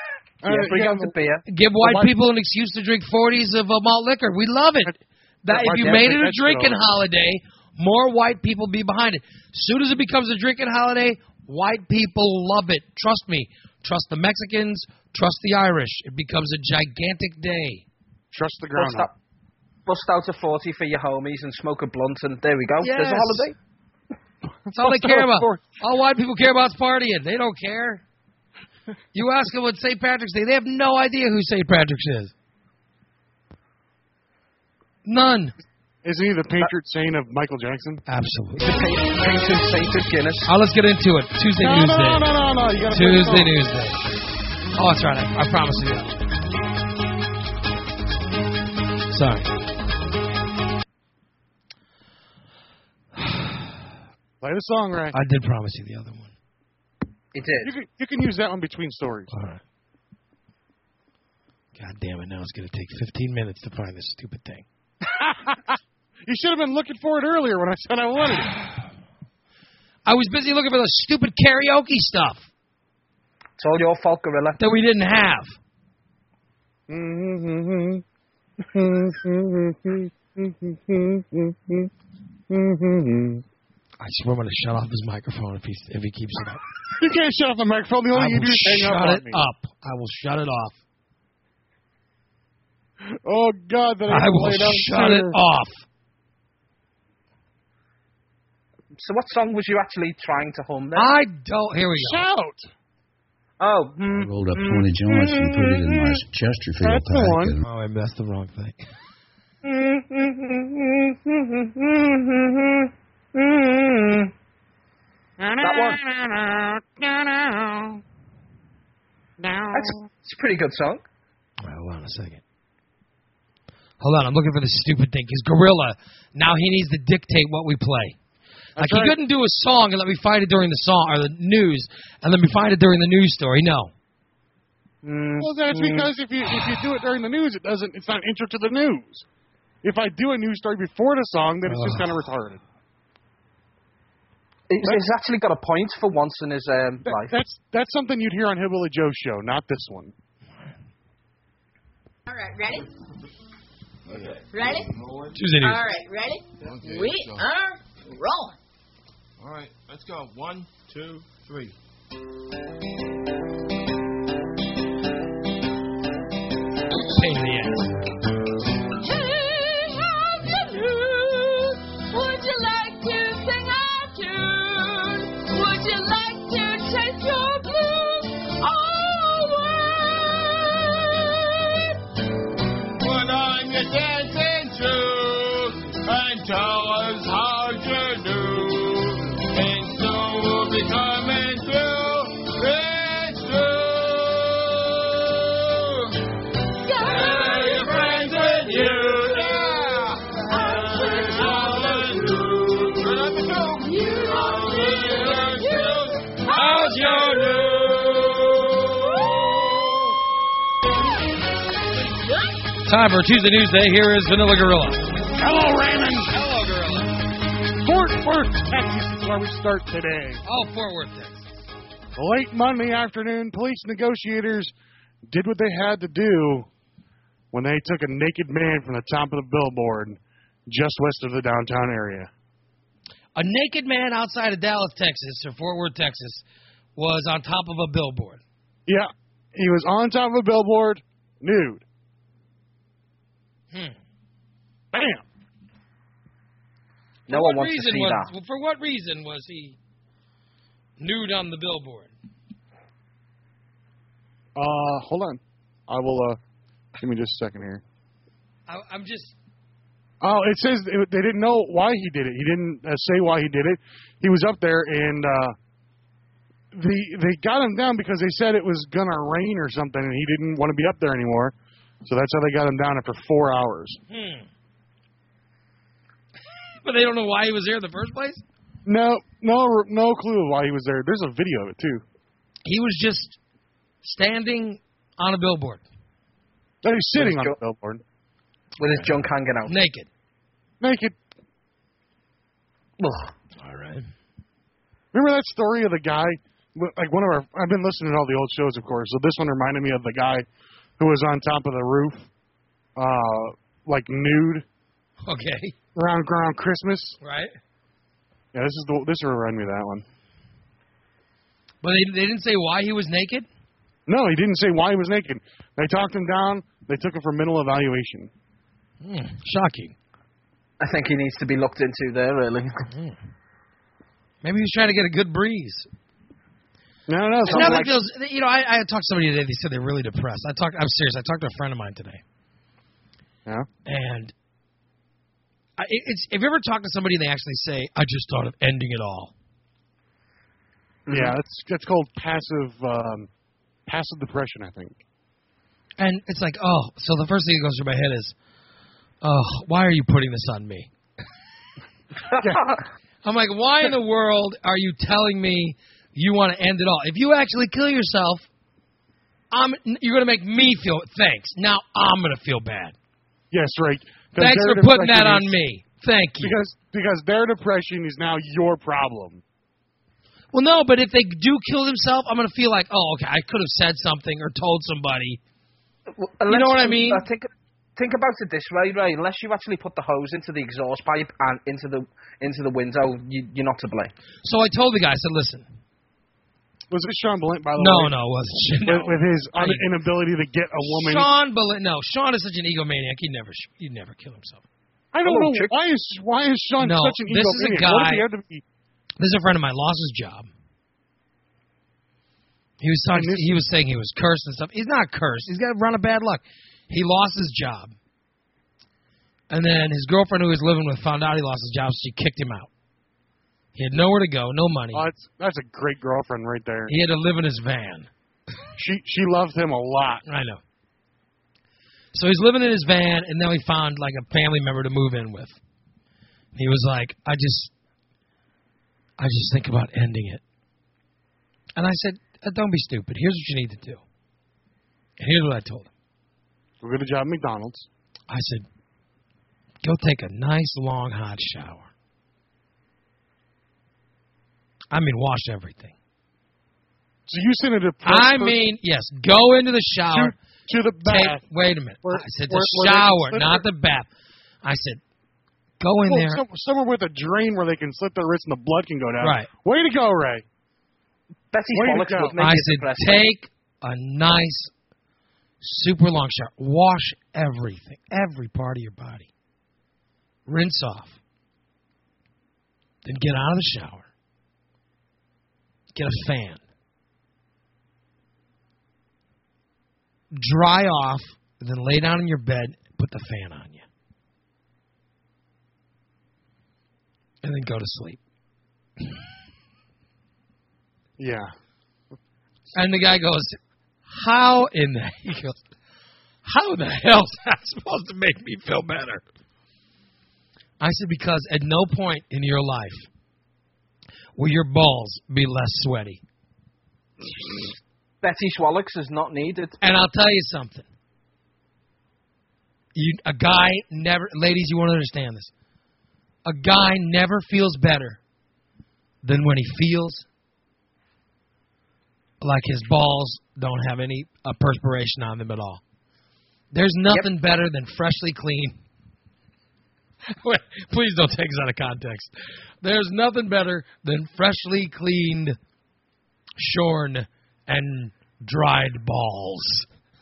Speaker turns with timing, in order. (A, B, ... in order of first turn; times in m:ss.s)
0:00.4-0:01.1 A
0:00.4-0:01.4 B
0:01.5-0:17.8 C
0:01.8-0:02.1 A
0:05.5-0:06.8 A
0:05.6-0:06.0 B
0:18.3-0:19.1 A
0:18.8-0:19.1 B
0:19.8-0:23.5 B
0:22.8-0:23.5 C
0:24.6-0:25.6 A
0:24.7-0:28.0 C
0:29.1-0:32.3 C
0:35.0-0:35.5 C
0:36.0-0:38.0 A
0:38.1-0:38.7 C
0:38.6-0:40.5 B
0:40.4-0:42.3 C
0:41.6-0:43.5 A
0:42.9-0:44.0 C
0:44.8-0:46.2 C
0:49.1-0:49.5 C
0:53.2-0:53.6 C
0:54.4-0:55.2 A
0:55.1-0:56.3 C
0:57.3-0:57.7 B
0:57.6-0:59.3 A
0:59.3-0:59.6 C
1:01.8-1:04.6 C
1:05.0-1:08.6 A
1:10.0-1:12.5 C
1:13.6-1:14.6 B
1:14.6-1:15.6 C
1:16.9-1:18.0 A
1:18.7-1:21.9 A
1:22.5-1:23.4 A
1:24.0-1:26.6 C
1:27.0-1:29.4 A
1:28.1-1:30.8 C
1:33.1-1:35.4 A
1:34.1-1:35.8 C
1:39.0-1:41.1 B
1:40.9-1:42.2 C
1:42.0-1:42.7 A
1:43.6-1:46.2 B
1:44.1-1:47.6 D
1:46.8-1:47.6 A
1:47.6-1:48.8 C
1:49.6-1:54.3 B
1:55.4-1:58.0 A
1:55.6-1:56.0 B
1:59.4-2:00.0 A
1:59.7-2:01.0 B
2:01.6-2:02.4 C
2:04.0-2:08.2 C
2:08.8-2:09.1 A
2:08.8-2:13.9 C
2:15.0-2:16.1 B
2:15.4-2:19.2 A
2:19.8-2:22.6 A
2:21.7-2:22.1 C
2:24.7-2:27.4 B
2:27.0-2:30.1 A
2:32.3-2:32.9 E
2:34.1-2:34.4 F
2:34.5-2:35.0 E
2:35.3-2:35.8 C
2:35.6-2:38.6 E
2:36.6-2:37.4 F
2:39.4-2:41.7 F
2:47.1-2:47.9 C
2:49.0-3:02.0 E
3:03.0-3:16.2 F
3:16.8-3:19.7 E
3:17.0-3:29.8 F
3:20.4-3:22.2 E
3:23.8-3:27.7 E
3:29.1-3:29.5 E
3:32.2-3:32.5 E
3:32.8-3:35.0 C
3:35.4-3:36.3 A
3:36.3-3:37.1 C
3:37.7-3:40.4 A
3:40.4-3:41.5 C
3:42.2-3:44.7 A
3:45.3-3:46.7 A
3:47.5-3:52.3 A
3:53.4-3:56.4 C
3:57.0-3:58.4 C
3:58.9-4:01.8 A
4:04.9-4:05.2 A
4:07.3-4:08.3 B
4:07.3-4:09.8 C
4:11.0-4:12.1 C
4:14.6-4:16.4 A
4:17.0-4:17.8 A
4:18.7-4:19.4 C
4:20.2-4:25.6 A
4:26.7-4:34.0 A
4:34.1-4:34.5 C
4:36.8-4:38.4 C
4:38.8-4:42.0 A
4:42.6-4:43.4 C
4:44.0-4:45.8 C
4:46.8-4:48.0 A
4:47.2-4:47.6 B
4:48.8-4:49.7 B
4:49.7-4:50.1 C
4:50.8-4:51.2 A
4:53.0-4:53.3 B
4:53.6-4:54.1 C
4:55.1-5:00.4 A
5:01.0-5:02.3 A
5:03.0-5:04.6 A
5:05.2-5:05.7 C
5:05.9-5:07.2 A
5:07.2-5:07.5 C
5:08.5-5:10.0 A
5:11.8-5:13.5 C
5:14.1-5:18.3 A
5:19.0-5:19.9 C
5:20.8-5:22.9 B
5:22.9-5:23.2 C
5:24.4-5:25.9 C
5:27.1-5:27.9 A
5:27.5-5:27.9 B
5:27.5-5:32.2 C
5:33.8-5:34.3 C
5:35.8-5:39.3 C
5:41.0-5:41.3 B
5:41.1-5:43.3 A
5:43.8-5:45.0 A
5:46.0-5:48.3 C
5:49.2-5:50.9 C
5:53.2-5:58.5 C
5:59.5-6:02.9 C
6:03.5-6:05.5 A
6:04.4-6:06.5 C
6:06.4-6:09.4 A
6:10.5-6:15.4 C
6:16.2-6:24.1 B
6:16.5-6:17.2 C
6:24.4-6:25.7 C
6:26.9-6:28.1 A
6:27.8-6:29.8 C
6:28.8-6:31.3 A
6:30.8-6:34.6 C
6:35.1-6:38.6 A
6:35.2-6:35.7 B
6:36.8-6:38.3 C
6:39.2-6:40.5 C
6:42.8-6:47.9 C
6:43.1-6:43.6 A
6:49.5-6:52.7 C
6:53.7-6:55.1 C
6:54.9-6:56.9 A
6:56.9-6:58.1 C
6:58.8-7:00.2 A
7:00.2-7:00.6 C
7:02.1-7:05.6 C
7:06.5-7:07.7 C
7:09.2-7:10.4 C
7:11.8-7:14.0 C
7:15.2-7:15.9 C
7:16.8-7:17.9 A
7:18.3-7:18.6 C
7:19.8-7:21.9 C
7:24.9-7:25.9 C
7:27.3-7:28.6 A
7:28.0-7:30.3 C
7:30.1-7:31.4 A
7:31.0-7:34.1 C
7:32.0-7:33.6 A
7:34.6-7:35.0 C
7:35.8-7:36.4 C
7:36.1-7:40.4 A
7:39.2-7:39.5 C
7:41.5-7:43.2 B
7:41.7-7:42.3 A
7:42.4-7:44.7 C
7:45.6-7:49.3 C
7:50.5-7:51.2 C
7:53.0-7:54.1 C
7:55.9-7:56.6 C
8:00.3-8:03.8 C
8:07.4-8:08.2 C
8:11.2-8:11.5 A
8:12.7-8:13.6 C
8:14.1-8:15.6 C
8:16.4-8:19.2 C
8:20.8-8:23.1 C
8:24.4-8:26.2 C
8:28.2-8:29.8 B
8:29.8-8:30.9 C
8:32.9-8:35.5 C
8:36.4-8:38.2 C
8:39.2-8:40.2 C
8:42.4-8:45.8 C
8:46.7-8:48.8 C
8:50.4-8:55.6 C
8:56.6-8:59.9 C